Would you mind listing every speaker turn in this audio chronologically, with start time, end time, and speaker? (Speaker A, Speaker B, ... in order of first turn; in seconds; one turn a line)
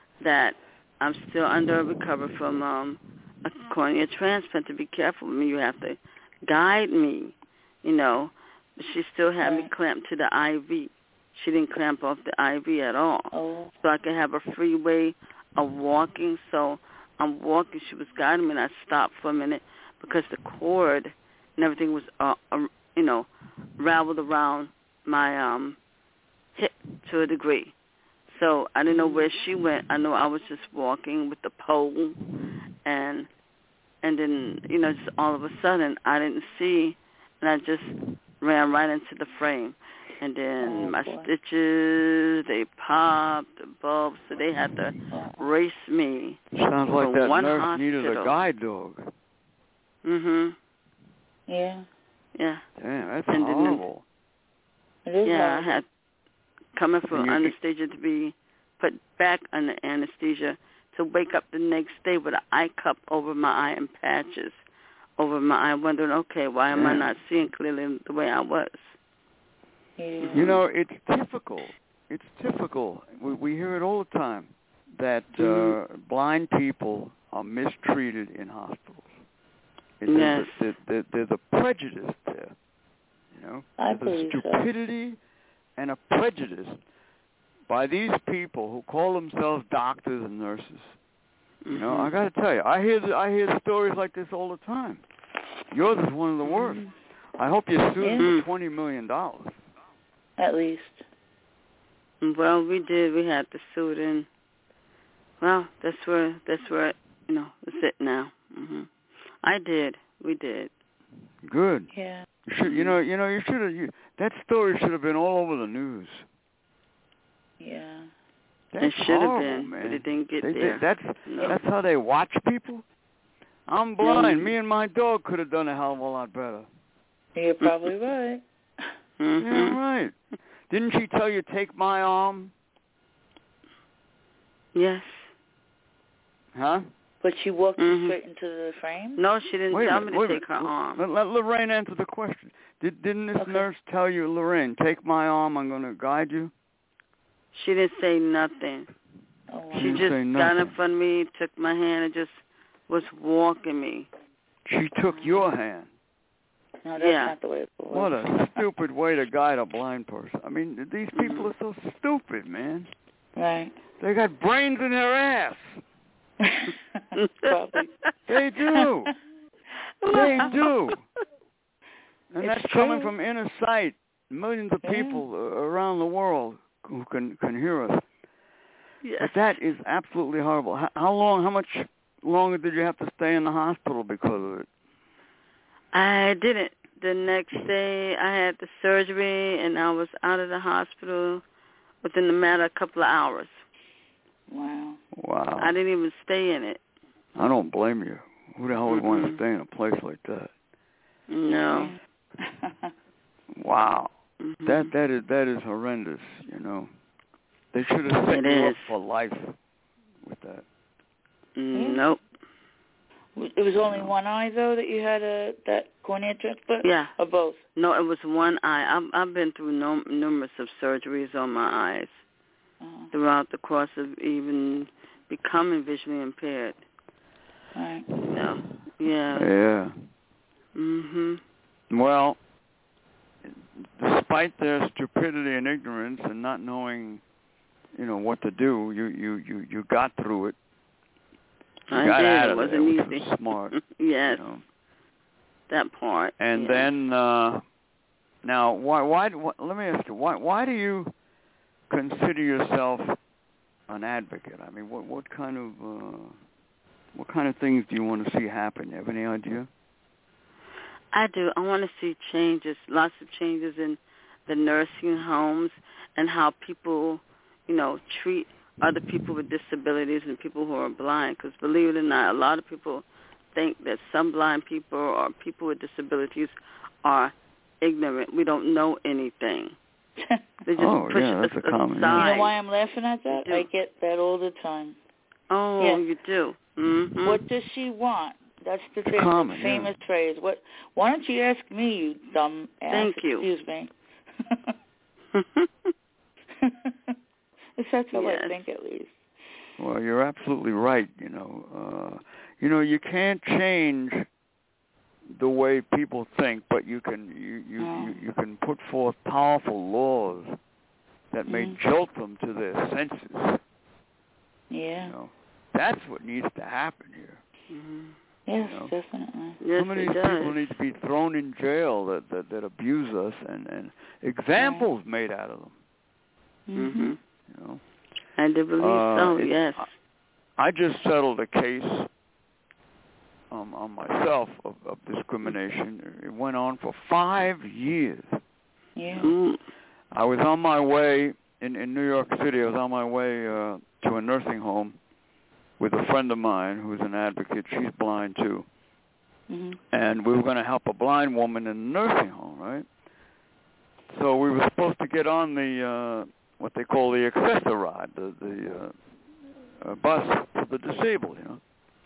Speaker A: 0.2-25.8
Speaker B: 9.4-9.7
Speaker B: 13.3-13.7
Speaker A: 26.6-27.7
Speaker A: 28.3-32.2
Speaker B: 28.9-29.3
Speaker A: 32.8-33.3
Speaker A: 34.0-46.4
Speaker B: 40.6-41.3
Speaker B: 45.1-45.5
Speaker C: 46.5-49.1
Speaker A: 47.0-48.3
Speaker A: 50.0-50.6
Speaker B: 51.5-51.9
Speaker A: 52.4-52.6
Speaker C: 52.8-54.0
Speaker A: 53.3-53.8
Speaker B: 55.0-55.8
Speaker A: 55.2-55.9
Speaker A: 56.8-64.6
Speaker C: 57.1-57.6
Speaker A: 65.2-69.0
Speaker C: 66.7-67.1
Speaker B: 70.0-70.6
Speaker A: 70.2-70.6
Speaker C: 70.3-79.1
Speaker C: 80.0-82.5
Speaker A: 80.1-80.6
Speaker C: 83.3-85.2
Speaker B: 83.8-84.7
Speaker C: 85.8-86.8
Speaker C: 87.7-91.0
Speaker A: 91.7-92.1
Speaker C: 91.7-95.0
Speaker C: 95.7-96.8
Speaker B: 96.5-96.9
Speaker C: 97.4-99.6
Speaker B: 98.0-98.3
Speaker A: 98.2-98.5
Speaker B: 100.4-101.0
Speaker A: 102.2-104.3
Speaker A: 105.4-108.9
Speaker A: 109.4-110.7
Speaker C: 111.4-111.9
Speaker B: 111.9-112.3
Speaker C: 112.5-116.2
Speaker A: 112.6-112.9
Speaker B: 117.6-118.1
Speaker C: 118.7-122.8
Speaker A: 118.8-121.6
Speaker C: 123.7-126.7
Speaker A: 124.1-124.4
Speaker B: 127.3-128.4
Speaker A: 127.6-127.9
Speaker A: 129.2-129.8
Speaker C: 129.4-130.2
Speaker C: 130.7-132.5
Speaker A: 134.8-135.3
Speaker C: 136.5-136.9
Speaker B: 137.2-139.2
Speaker A: 137.8-138.2
Speaker A: 139.2-141.0
Speaker C: 139.7-146.5
Speaker B: 143.4-143.7
Speaker A: 147.5-148.9
Speaker B: 149.5-150.1
Speaker A: 149.7-154.1
Speaker C: 149.7-150.7
Speaker C: 154.7-155.9
Speaker B: 156.8-158.5
Speaker A: 157.0-157.3
Speaker C: 157.9-162.9
Speaker A: 161.2-161.5
Speaker B: 163.4-163.8
Speaker C: 164.0-165.8
Speaker B: 166.4-167.9
Speaker A: 167.2-167.9
Speaker C: 168.3-169.1
Speaker A: 170.1-170.5
Speaker C: 170.1-171.0
Speaker B: 170.1-170.6
Speaker C: 172.3-178.0
Speaker A: 172.5-172.9
Speaker B: 172.6-172.9
Speaker B: 174.8-175.2
Speaker A: 179.0-179.5
Speaker C: 179.2-184.7
Speaker A: 185.9-191.4
Speaker A: 192.0-193.6
Speaker B: 194.5-195.0
Speaker C: 195.1-195.7
Speaker A: 195.6-196.8
Speaker C: 197.4-200.5
Speaker A: 198.9-199.4
Speaker A: 201.3-201.9
Speaker B: 201.5-202.9
Speaker C: 203.6-204.1
Speaker A: 204.4-204.9
Speaker C: 204.7-206.9
Speaker C: 207.7-209.5
Speaker A: 208.3-208.9
Speaker C: 210.2-210.7
Speaker A: 211.6-212.2
Speaker B: 211.8-212.0
Speaker B: 213.4-217.6
Speaker C: 213.8-214.1
Speaker A: 216.8-217.1
Speaker A: 217.8-222.2
Speaker B: 222.8-223.1
Speaker A: 223.1-226.8
Speaker B: 227.8-228.1
Speaker A: 228.3-229.5
Speaker C: 229.3-229.9
Speaker A: 230.8-231.4
Speaker C: 231.9-232.4
Speaker C: 233.4-237.2
Speaker C: 237.9-240.6
Speaker A: 241.9-244.4
Speaker C: 241.9-244.6
Speaker A: 245.7-246.9
Speaker C: 246.4-247.6
Speaker C: 248.4-251.1
Speaker C: 251.9-253.2
Speaker C: 253.9-256.4
Speaker C: 257.1-259.7
Speaker A: 261.1-279.8
Speaker A: 280.7-282.5
Speaker C: 280.8-282.4
Speaker B: 282.1-285.0
Speaker A: 283.3-283.7
Speaker A: 285.5-287.4
Speaker B: 287.2-293.9
Speaker C: 289.1-289.9
Speaker A: 292.9-293.5
Speaker A: 295.4-295.7
Speaker B: 296.6-296.9
Speaker B: 297.8-299.2
Speaker A: 298.1-298.6
Speaker C: 299.8-304.3
Speaker C: 305.3-310.6
Speaker B: 307.8-308.1
Speaker C: 311.3-313.6
Speaker B: 311.5-311.8
Speaker B: 314.7-315.1
Speaker C: 315.0-317.4
Speaker A: 317.7-318.2
Speaker B: 318.5-319.6
Speaker C: 318.6-318.9
Speaker A: 319.6-320.6
Speaker C: 319.8-325.8
Speaker B: 324.6-324.9
Speaker B: 326.7-327.1
Speaker A: 326.8-327.2
Speaker C: 327.5-327.8
Speaker A: 328.4-329.9
Speaker C: 328.8-329.9
Speaker C: 330.6-332.1
Speaker C: 333.5-338.4
Speaker B: 339.0-339.3
Speaker C: 339.1-339.3
Speaker A: 339.2-339.6
Speaker C: 340.1-345.0
Speaker C: 345.8-348.7
Speaker B: 349.5-349.8
Speaker C: 349.9-352.9
Speaker C: 354.1-358.9
Speaker C: 359.8-361.6